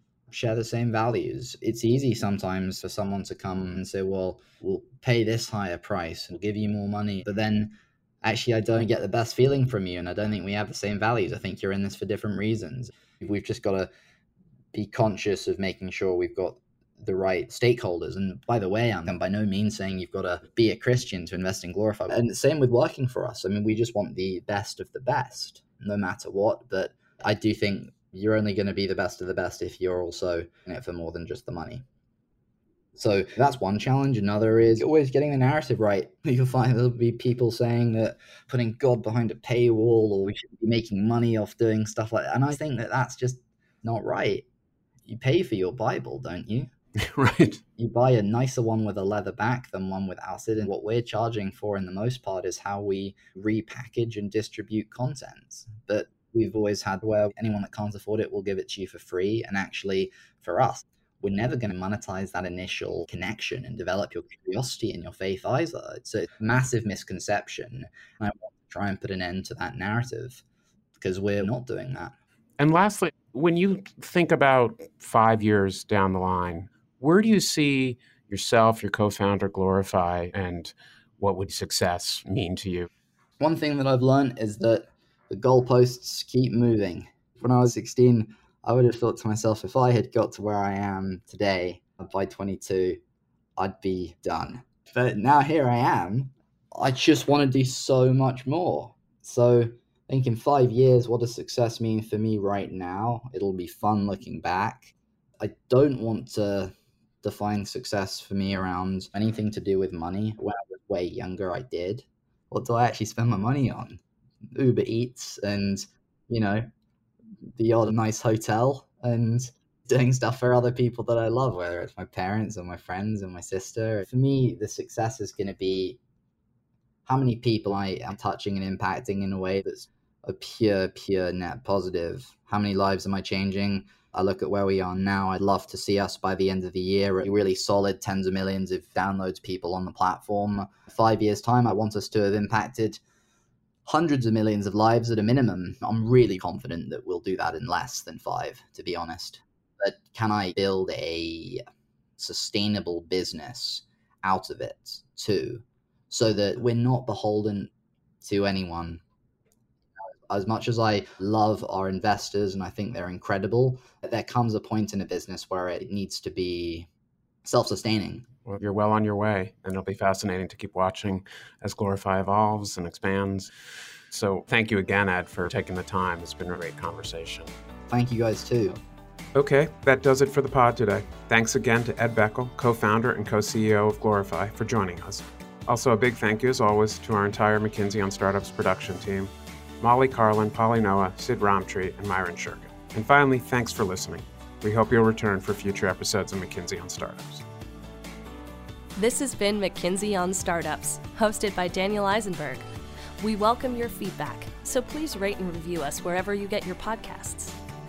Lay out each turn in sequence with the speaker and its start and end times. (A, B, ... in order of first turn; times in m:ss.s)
0:00.3-0:13.9 A
0:14.7-0:31.8 A
0:33.0-0:44.5 A
0:45.1-0:46.7 A
0:47.0-0:47.6 B
0:47.8-1:10.4 A
1:11.0-1:12.2 A
1:12.6-1:22.9 B
1:23.4-1:33.0 A
1:33.6-1:46.7 A
1:47.2-1:54.0 A
1:54.5-1:56.7 A
1:57.6-2:06.0 A
2:07.1-2:23.0 A
2:23.9-2:31.6 A
2:32.2-2:37.7 A
2:38.2-2:39.0 A
2:40.3-2:46.9 A
2:47.4-2:48.3 A
2:48.4-2:53.5 B
2:54.1-2:57.5 B
2:57.9-2:58.8 A
2:59.4-3:17.4 B
3:19.0-3:22.6 C
3:23.2-3:27.6 C